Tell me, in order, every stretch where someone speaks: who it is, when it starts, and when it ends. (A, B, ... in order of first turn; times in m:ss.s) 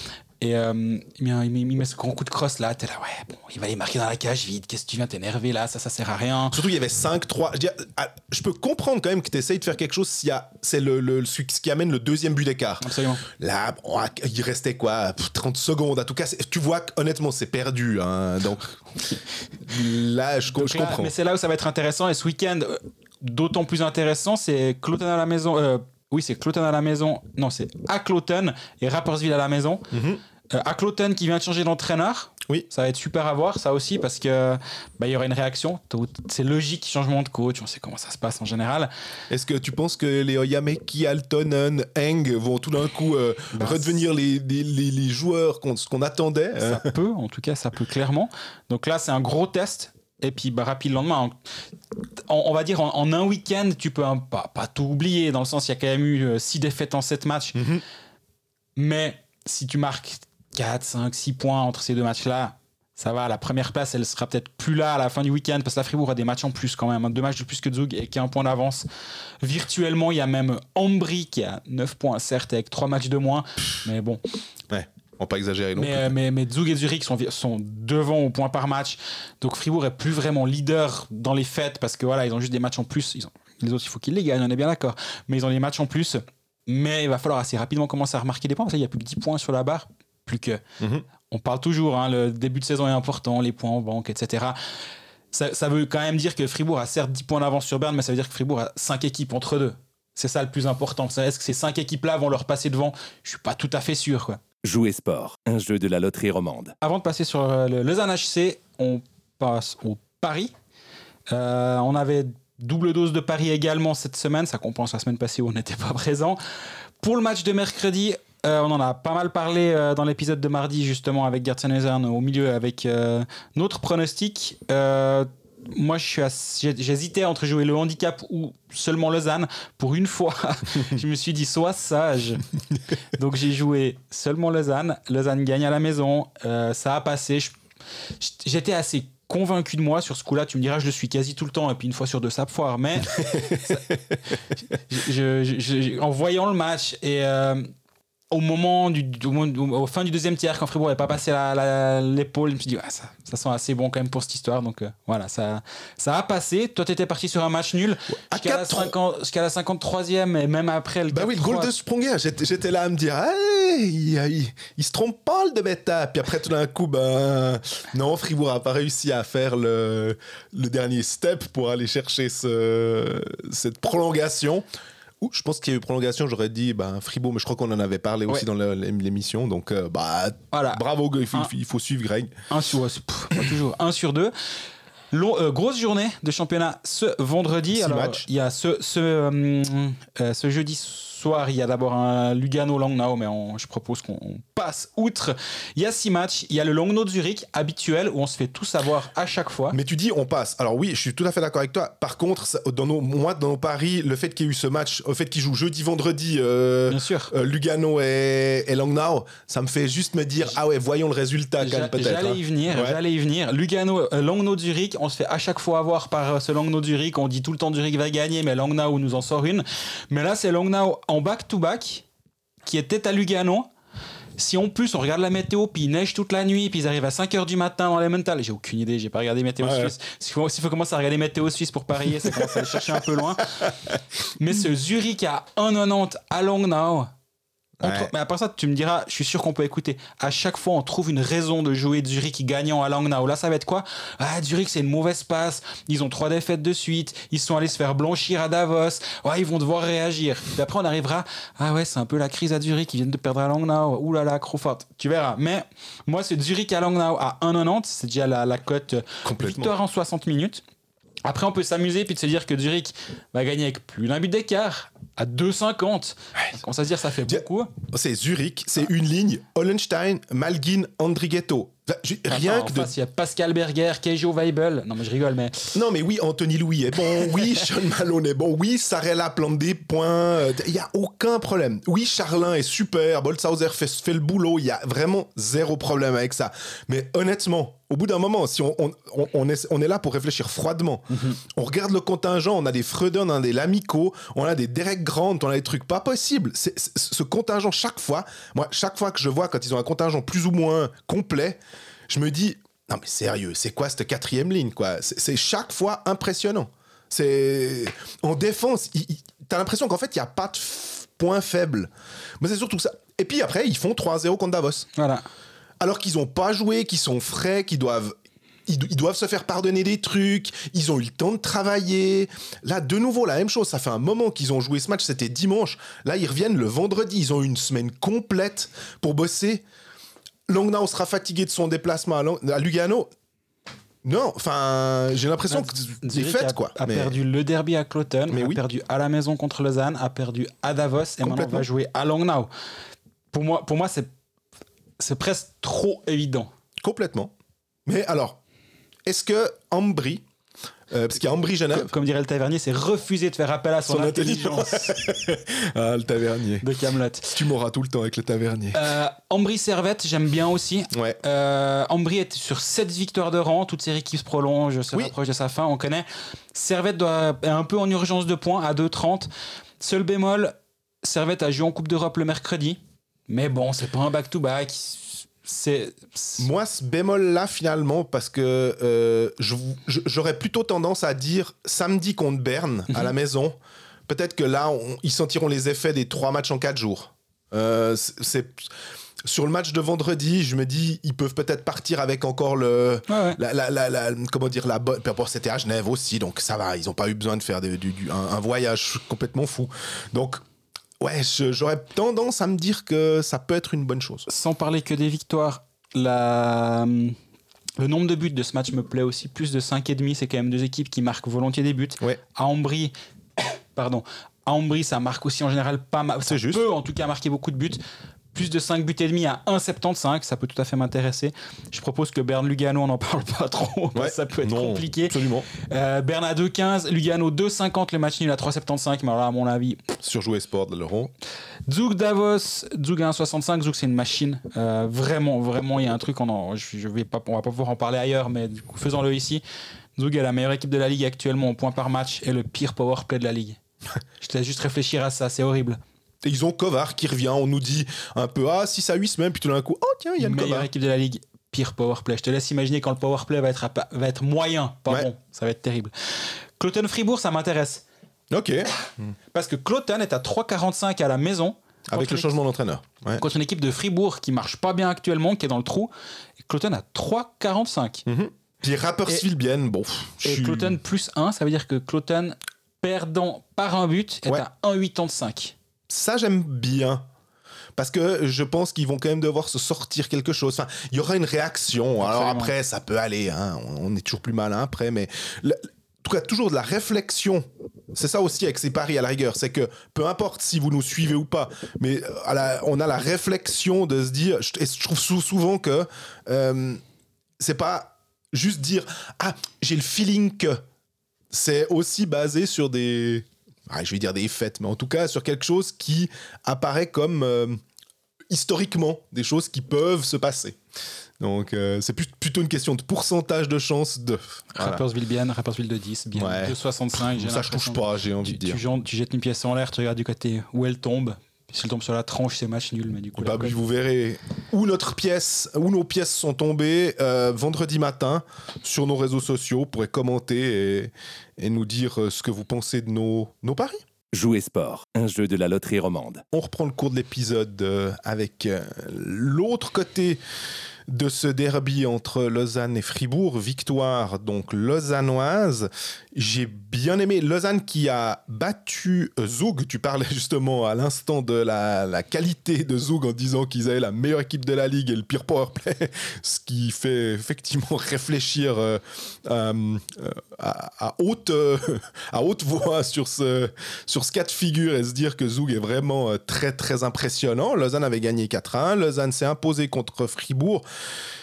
0:00.4-0:06.6 A
0:06.5-0:18.8 B
0:12.8-0:13.2 A
0:19.6-0:21.1 B
0:20.5-0:29.9 A
0:29.9-0:30.2 B
0:30.5-0:38.9 A
0:39.3-0:46.9 B
0:43.5-0:44.0 A
0:46.6-0:51.4 A
0:52.2-0:57.6 A
0:57.6-0:57.8 B
0:58.8-1:08.9 A
1:09.4-1:14.2 A
1:14.7-1:16.1 B
1:15.8-1:30.6 A
1:30.8-1:31.0 B
1:31.3-1:34.6 A
1:35.3-1:44.4 A
1:44.6-1:46.7 C
1:46.8-1:50.5 A
1:51.3-1:56.4 A
1:57.0-2:12.4 A
2:13.1-2:17.5 A
2:18.2-2:23.9 A
2:23.2-2:24.0 B
2:24.9-2:27.7 A
2:28.3-2:41.7 A
2:38.3-2:38.9 B
2:41.1-2:54.6 B
2:55.2-3:02.3 B
3:00.5-3:00.8 A
3:02.5-3:04.3 A
3:05.1-3:19.8 A
3:07.7-3:08.3 B
3:19.7-3:33.0 B
3:26.9-3:27.3 A
3:31.6-3:42.1 A
3:42.6-3:43.7 A
3:44.4-3:53.7 A
3:49.6-3:49.9 B
3:52.1-3:54.0 B
3:54.4-3:57.1 A
3:57.8-3:58.1 B
3:57.8-4:20.6 A
4:19.2-4:19.7 B
4:21.2-4:27.7 A
4:27.3-4:32.9 B
4:32.3-4:35.8 A
4:35.7-5:14.9 B
4:51.1-4:51.4 A
5:15.0-5:15.2 A
5:15.8-5:18.2 B
5:18.7-5:29.6 B
5:30.5-5:33.1 B
5:34.0-5:37.2 B
5:35.5-5:42.5 A
5:38.3-5:38.6 B
5:41.2-5:41.7 B
5:43.3-5:44.1 A
5:45.0-5:46.5 A
5:46.8-5:47.3 B
5:47.9-5:48.4 B
5:49.1-5:50.2 B
5:50.9-5:51.9 B
5:51.7-5:55.0 A
5:53.9-5:56.7 B
5:56.6-5:57.4 A
5:57.3-5:58.9 B
5:58.7-6:09.3 A
6:00.9-6:01.2 B
6:09.8-6:16.5 A
6:16.4-6:23.6 B
6:24.1-6:28.7 B
6:29.2-6:40.4 B
6:33.1-6:33.4 A
6:41.0-6:44.3 B
6:44.3-6:47.2 A
6:47.8-6:52.9 A
6:53.8-6:57.8 A
6:56.3-6:56.6 B
6:58.3-7:10.0 A
7:04.0-7:05.5 B
7:10.0-7:11.1 B
7:11.7-7:19.4 A
7:20.0-7:23.6 A
7:24.2-7:25.8 A
7:26.2-7:30.7 B
7:30.2-7:37.8 A
7:38.3-7:39.2 B
7:39.3-7:42.3 A
7:41.9-7:43.2 B
7:43.2-7:48.0 A
7:48.1-7:50.8 B
7:50.2-7:55.6 A
7:55.9-7:57.0 B
7:57.8-8:16.8 B
8:02.0-8:02.5 A
8:17.4-8:20.6 B
8:21.3-8:27.6 B
8:28.3-8:30.6 B
8:31.2-8:34.8 B
8:34.5-8:43.6 A
8:36.2-8:38.6 B
8:43.2-8:53.8 B
8:54.1-8:56.2 C
8:56.3-9:00.2 B
9:00.9-9:30.6 B